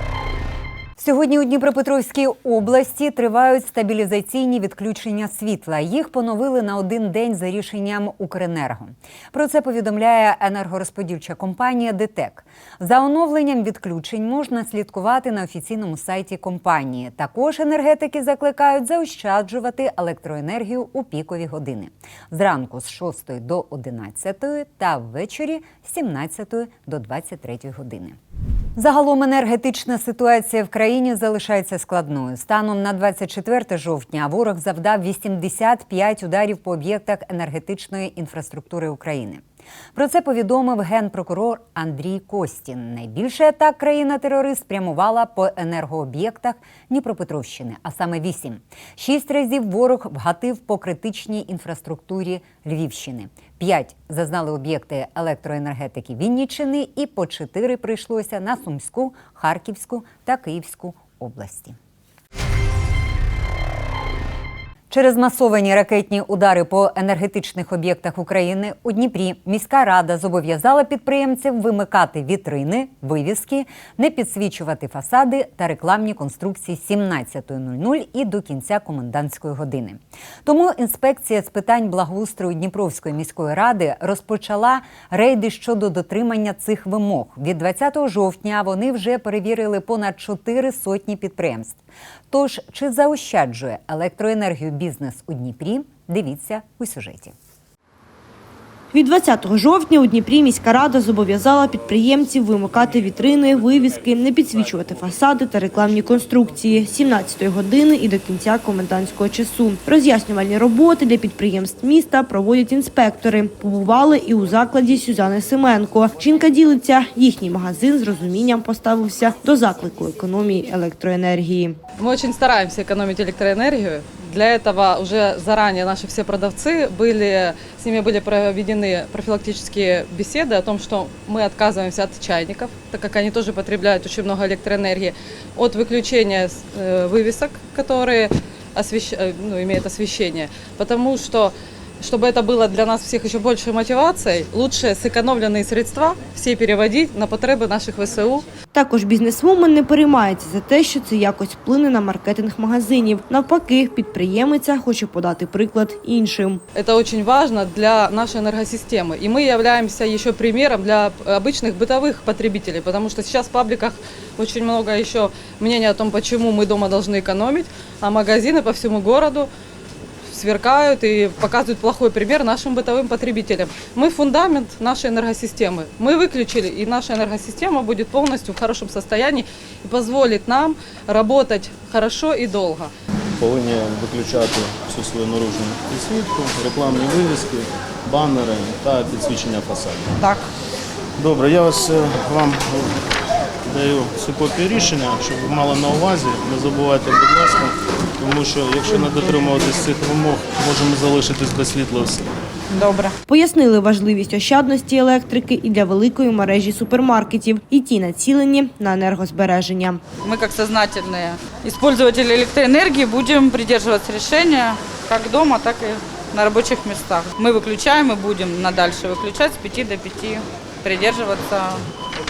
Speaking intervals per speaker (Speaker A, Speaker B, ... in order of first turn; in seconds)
Speaker A: 1.0-28.2, 28.8-39.4, 40.0-61.8, 64.9-91.8, 92.3-97.3
Speaker B: 98.9-121.8, 148.7-156.6, 203.3-210.0
Speaker C: 122.0-148.4, 156.8-169.5, 170.3-182.9
Speaker D: 183.4-190.2, 191.2-193.0, 193.7-202.3
Speaker E: 202.7-203.1, 210.2-221.8